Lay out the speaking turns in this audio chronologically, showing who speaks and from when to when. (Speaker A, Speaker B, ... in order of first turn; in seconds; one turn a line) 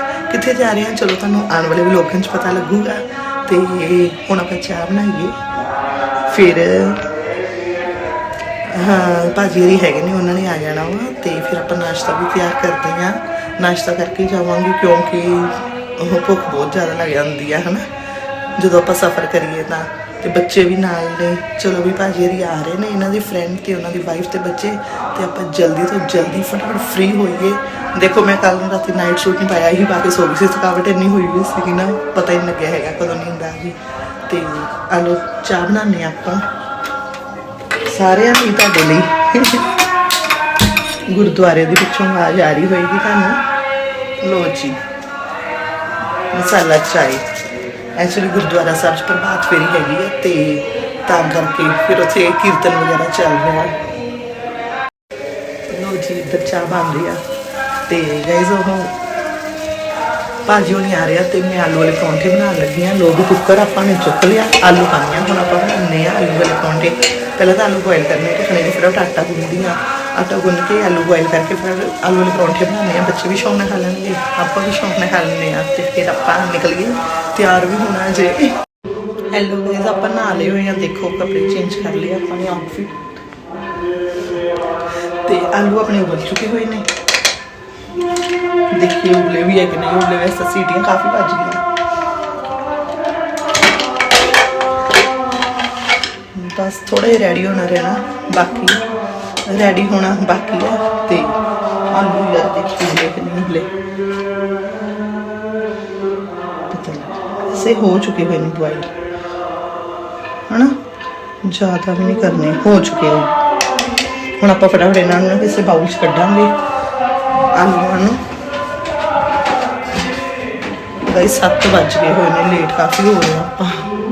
Speaker A: 0.3-5.4
Speaker A: 6.3-7.0
Speaker A: 8.7-17.9
Speaker A: 18.6-36.5
Speaker A: 37.9-39.6
Speaker A: 41.1-43.4
Speaker A: 44.2-44.8
Speaker A: 46.3-47.2
Speaker A: 48.0-53.8
Speaker A: 55.7-57.2
Speaker A: 57.9-59.0
Speaker A: 60.5-78.5
Speaker A: 79.3-83.1
Speaker A: 85.2-86.9
Speaker A: 88.7-91.6
Speaker A: 96.3-98.8
Speaker A: 99.5-101.4
Speaker A: 101.9-103.7
Speaker A: 106.7-108.9
Speaker A: 110.5-110.8
Speaker A: 111.4-113.3
Speaker A: 114.4-116.5
Speaker A: 117.5-118.2
Speaker A: 121.1-123.9